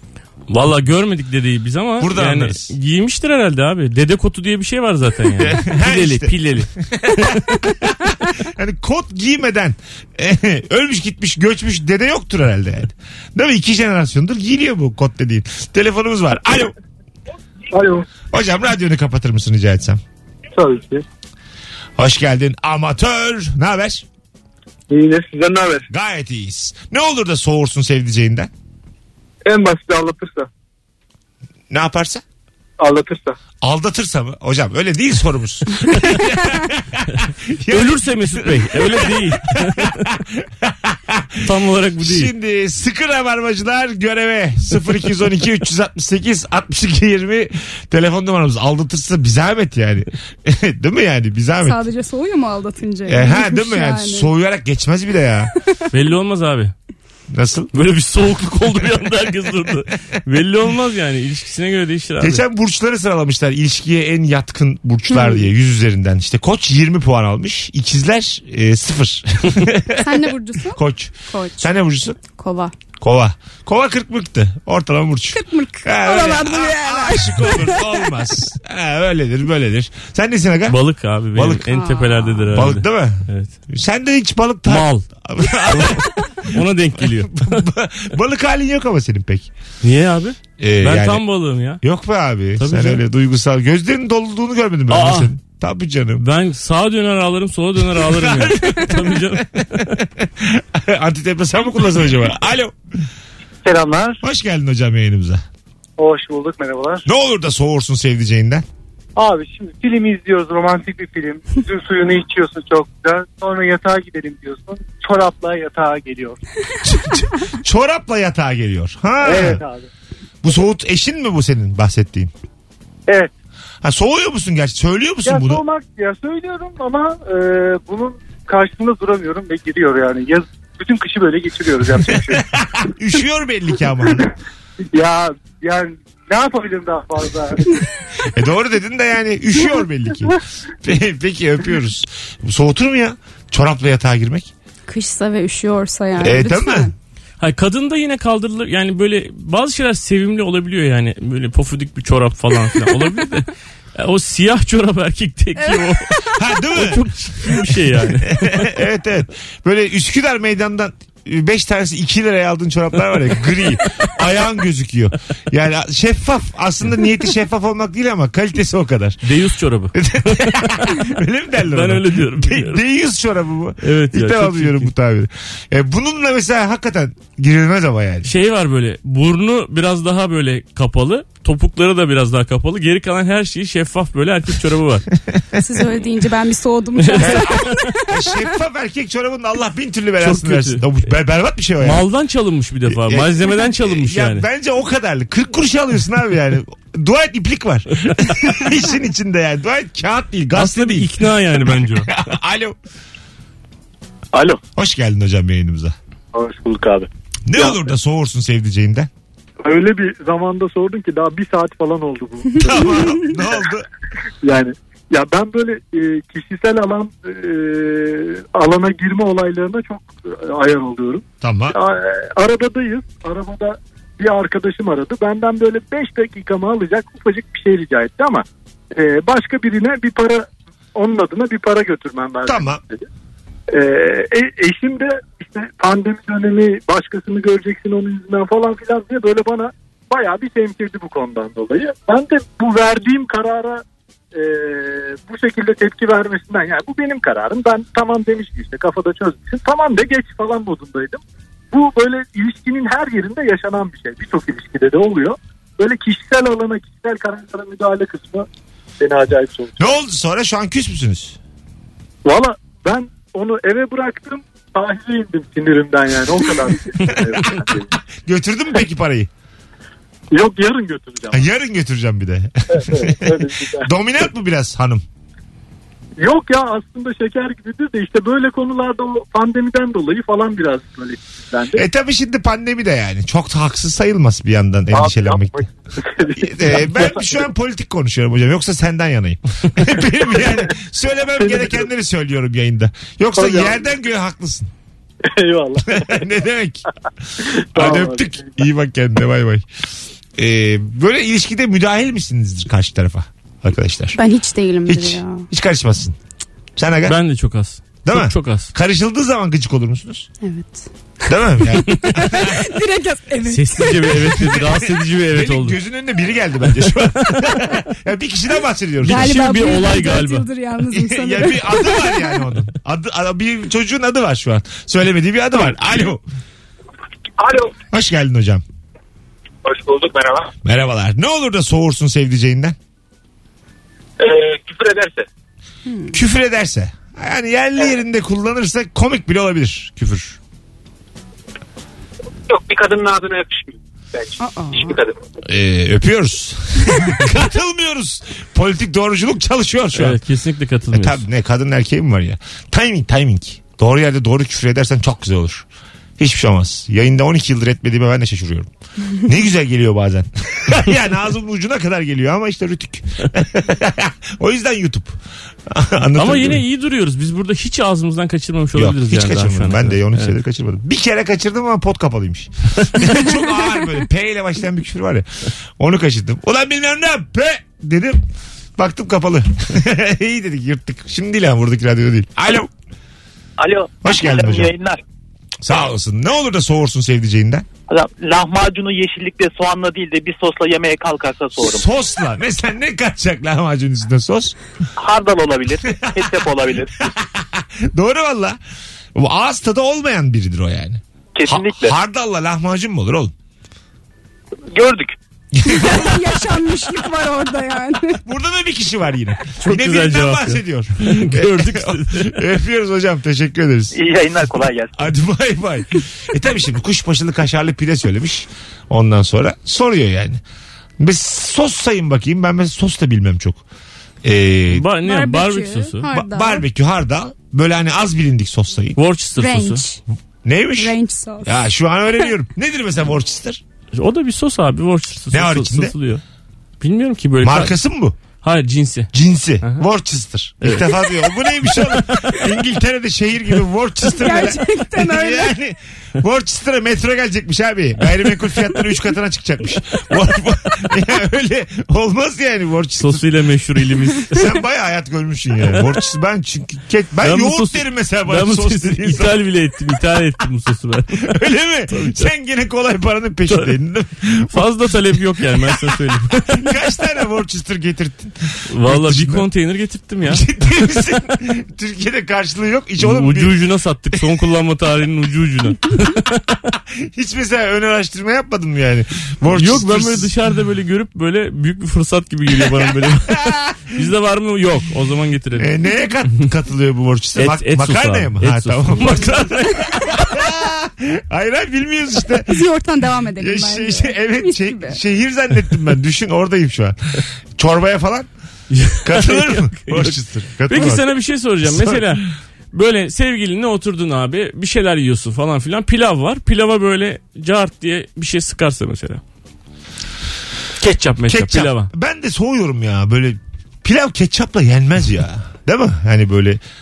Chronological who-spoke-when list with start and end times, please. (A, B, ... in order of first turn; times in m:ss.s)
0:00.5-0:07.7 A
0:02.0-0:02.7 B
0:05.4-0:16.7 B
0:17.7-0:18.0 C
0:18.3-0:20.0 B
0:20.6-0:21.0 C
0:22.0-0:24.0 B
0:25.9-0:28.5 B
0:29.5-0:30.4 C
0:31.7-0:32.2 B
0:32.9-0:33.2 C
0:33.6-0:51.8 B
0:37.7-0:40.0 A
0:41.4-0:42.3 A
0:51.6-0:54.3 D
0:53.1-0:55.5 B
0:55.9-0:56.7 A
0:57.3-0:57.7 B
0:57.7-1:02.4 A
1:02.2-1:12.2 B
1:05.1-1:05.5 D
1:10.0-1:12.7 D
1:13.0-1:20.8 B
1:15.3-1:18.1 D
1:20.7-1:23.5 A
1:21.3-1:21.8 B
1:21.7-1:22.4 D
1:22.5-1:29.5 B
1:24.6-1:25.0 A
1:25.6-1:27.6 A
1:29.8-1:31.8 A
1:30.6-1:31.2 B
1:31.8-1:36.2 B
1:32.6-1:33.0 A
1:34.9-1:35.3 A
1:36.2-1:40.0 A
1:37.9-1:42.7 B
1:44.2-1:45.4 B
1:47.0-1:48.6 B
1:56.8-1:59.6 B
1:59.4-1:59.7 C
2:00.4-2:02.3 B
2:03.8-2:05.6 B
2:05.2-2:09.7 C
2:10.2-2:12.4 C
2:12.1-2:14.3 B
2:14.9-2:17.6 C
2:18.2-2:24.5 B
2:24.9-2:26.9 D
2:26.2-2:26.9 B
2:27.4-2:38.8 A
2:36.3-2:49.3 B
2:49.2-2:51.1 A
2:49.9-2:58.3 B
2:51.6-2:52.8 A
2:53.8-2:54.9 A
2:58.2-3:05.1 A
3:05.6-3:08.5 D
3:07.0-3:07.6 A
3:07.2-3:12.0 B
3:10.2-3:10.9 A
3:11.8-3:14.4 A
3:12.9-3:22.7 B
3:20.5-3:22.2 A
3:24.3-3:24.6 E
3:24.8-3:25.9 B
3:26.5-3:27.1 E
3:27.4-3:29.1 B
3:29.6-3:33.4 C
3:32.6-3:33.9 B
3:34.4-3:53.0 C
3:41.4-3:41.8 B
3:52.4-3:52.8 B
3:53.7-4:11.2 C
4:11.7-4:18.5 C
4:19.0-4:19.9 C
4:19.8-4:21.4 B
4:22.2-4:27.9 C
4:27.2-4:27.6 B
4:28.1-4:29.3 B
4:30.3-4:31.5 C
4:31.3-4:35.0 B
4:32.7-4:33.9 C
4:36.2-4:41.8 C
4:41.7-4:45.7 B
4:44.9-4:45.5 C
4:46.0-4:47.1 C
4:46.4-4:54.7 B
4:51.4-4:51.8 C
4:53.4-4:53.8 C
4:55.2-4:56.3 C
4:55.9-4:56.8 B
4:57.4-4:59.6 B
4:57.7-4:58.5 C
5:00.4-5:04.2 B
5:04.2-5:05.5 D
5:04.8-5:06.2 B
5:06.8-5:07.2 B
5:07.0-5:08.7 A
5:08.0-5:10.3 B
5:10.4-5:13.9 D
5:11.3-5:12.7 B
5:13.5-5:15.8 A
5:14.0-5:19.7 B
5:16.8-5:17.6 A
5:19.0-5:20.5 A
5:19.1-5:22.2 D
5:20.9-5:26.2 B
5:27.4-5:27.7 F
5:27.9-5:28.6 B
5:29.6-5:30.5 F
5:30.6-5:32.8 B
5:34.2-5:35.2 F
5:36.1-5:40.4 B
5:42.5-5:45.1 F
5:44.4-5:45.0 D
5:45.4-5:50.2 B
5:49.9-5:51.2 A
5:50.9-5:55.6 B
5:56.2-6:06.6 B
6:06.2-6:10.3 A
6:08.7-6:18.2 B
6:18.8-6:22.7 B
6:23.6-6:25.0 E
6:24.0-6:24.7 B
6:25.6-6:27.6 B
6:27.9-6:31.8 E
6:31.6-6:34.6 B
6:35.0-6:36.9 E
6:35.9-6:36.2 B
6:37.0-6:38.6 B
6:39.1-6:43.3 B
6:41.4-6:41.9 E
6:44.7-6:45.1 E
6:45.5-6:46.3 B
6:45.6-6:48.2 D
6:48.2-6:54.0 B
6:49.6-6:52.4 A
6:53.9-6:55.0 E
6:54.9-7:00.4 B
7:01.0-7:03.6 B
7:04.2-7:04.8 B
7:04.7-7:06.1 A
7:05.0-7:06.6 D
7:06.1-7:09.0 B
7:09.0-7:09.8 A
7:09.4-7:10.0 D
7:10.4-7:13.6 B
7:10.8-7:11.6 D
7:13.9-7:16.2 A
7:15.3-7:15.9 B
7:16.8-7:17.8 A
7:17.4-7:18.2 B
7:18.4-7:19.1 A
7:19.1-7:33.2 B
7:20.6-7:22.4 A
7:24.1-7:25.5 D
7:33.0-7:34.4 A
7:34.2-7:39.4 B
7:37.2-7:41.3 A
7:41.2-7:44.8 B
7:41.9-7:42.3 A
7:43.5-7:43.7 A
7:44.5-7:46.8 A
7:45.4-7:49.4 B
7:48.7-7:50.5 A
7:50.2-7:53.6 B
7:53.0-7:56.5 A
7:54.1-7:54.4 B
7:56.9-8:00.3 B
7:59.5-8:05.7 A
8:02.6-8:03.6 B
8:05.6-8:12.6 B
8:07.4-8:10.4 A
8:12.5-8:15.0 D
8:13.4-8:18.3 B
8:18.7-8:29.2 A
8:19.0-8:21.1 B
8:21.6-8:22.2 B
8:30.8-8:31.9 A
8:31.2-8:36.6 B